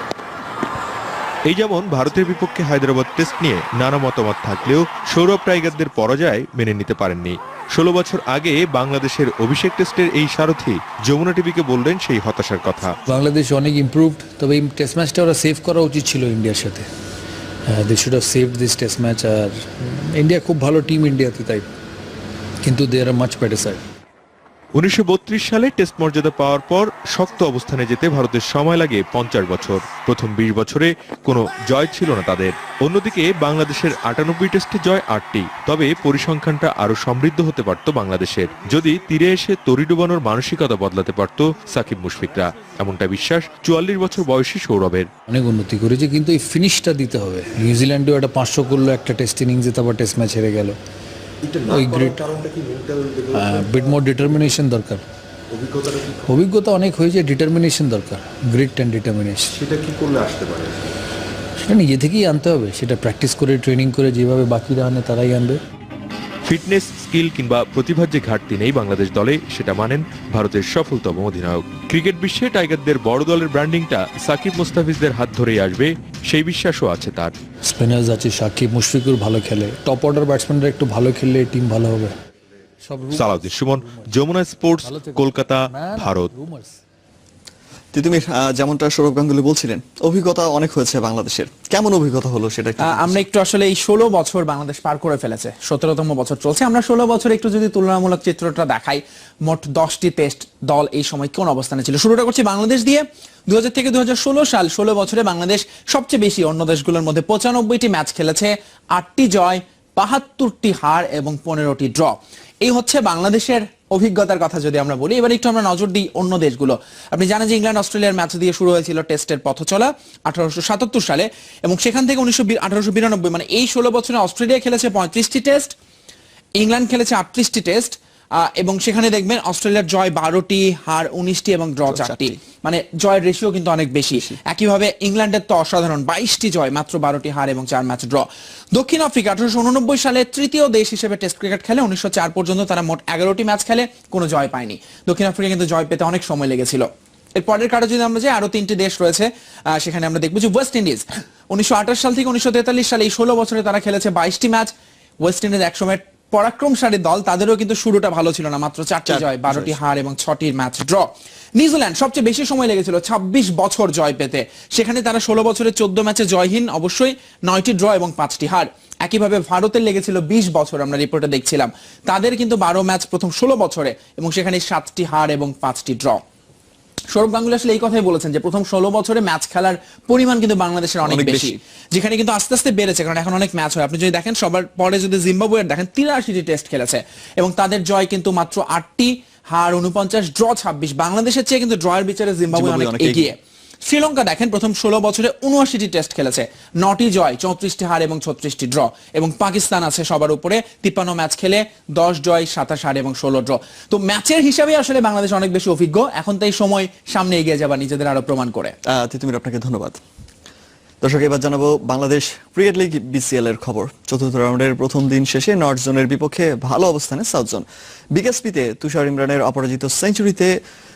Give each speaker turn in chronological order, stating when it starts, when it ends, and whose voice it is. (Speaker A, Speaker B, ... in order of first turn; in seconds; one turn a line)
Speaker A: 1.5-12.9
Speaker B: 13.1-16.9
Speaker B: 17.7-21.6
Speaker B: 22.6-23.8
Speaker A: 24.7-45.1
Speaker B: 45.3-50.8
Speaker B: 51.7-52.3
Speaker C: 51.7-53.9
Speaker B: 53.3-55.0
Speaker B: 56.2-59.6
Speaker C: 59.6-60.8
Speaker B: 61.6-65.6
Speaker A: 66.5-77.3
Speaker B: 77.6-82.1
Speaker B: 82.8-84.1
Speaker A: 83.1-86.3
Speaker B: 84.8-86.7
Speaker D: 87.9-93.2
Speaker E: 92.8-125.7
Speaker E: 126.6-154.7
Speaker D: 131.9-132.3
Speaker E: 155.2-176.2
Speaker D: 159.1-159.8
Speaker E: 177.1-208.7
Speaker D: 181.0-181.6
Speaker D: 192.5-193.3
Speaker D: 208.8-210.0
Speaker D: 211.0-220.6